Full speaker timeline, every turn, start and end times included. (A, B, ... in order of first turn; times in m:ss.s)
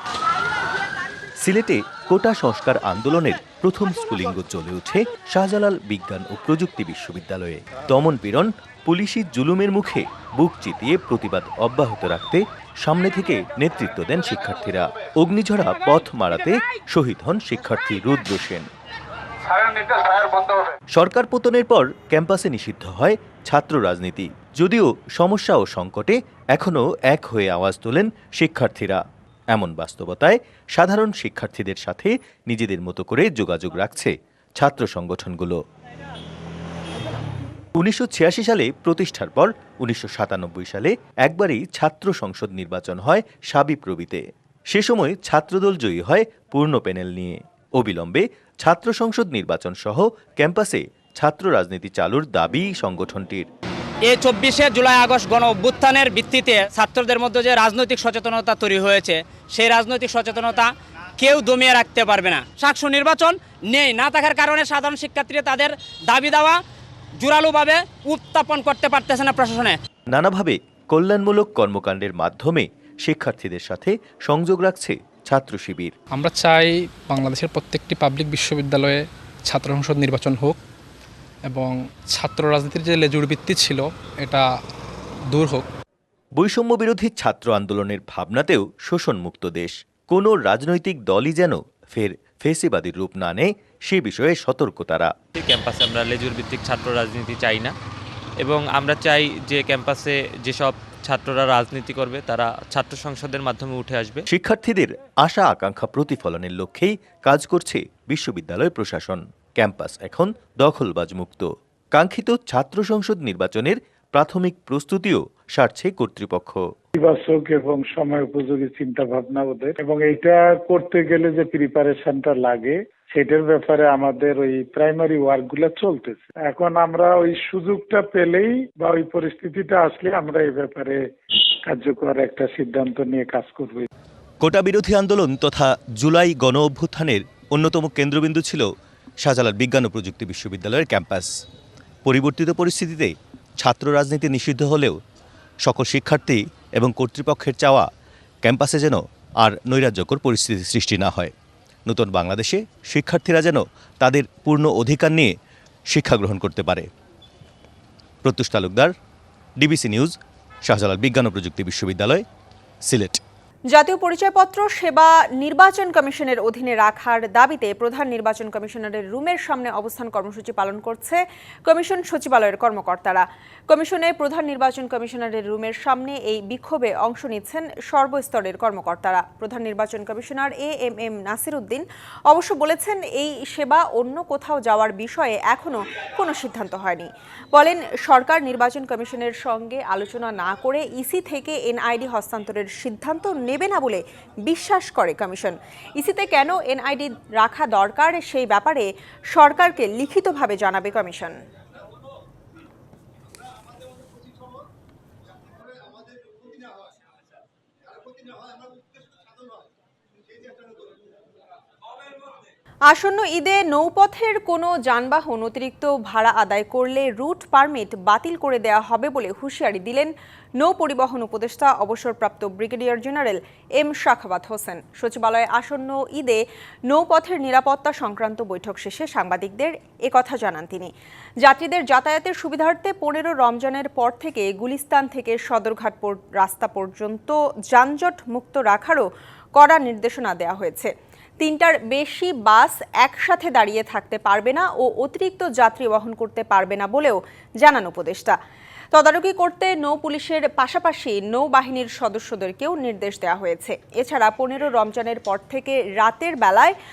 0:01.4-0:18.7 A
0:20.9-0:35.6 A
0:37.8-0:53.5 A
0:54.1-1:06.6 B
1:07.2-1:09.8 B
1:10.1-1:15.9 A
1:16.1-1:20.6 C
1:21.5-1:24.5 C
1:25.3-1:25.6 C
1:26.4-1:35.1 A
1:35.4-1:37.7 D
1:38.4-1:44.2 D
1:44.3-1:56.7 A
1:56.9-2:11.0 E
2:11.6-2:13.9 E
2:14.4-2:18.7 A
2:19.2-2:21.3 A
2:22.0-2:25.0 A
2:25.6-2:27.9 A
2:28.4-2:31.3 A
2:31.9-2:35.3 A
2:35.9-2:36.9 A
2:38.2-2:38.9 A
2:39.6-2:42.2 A
2:42.8-2:43.2 A
2:43.7-3:21.3 F
3:32.9-4:08.4 F
4:08.9-4:16.8 F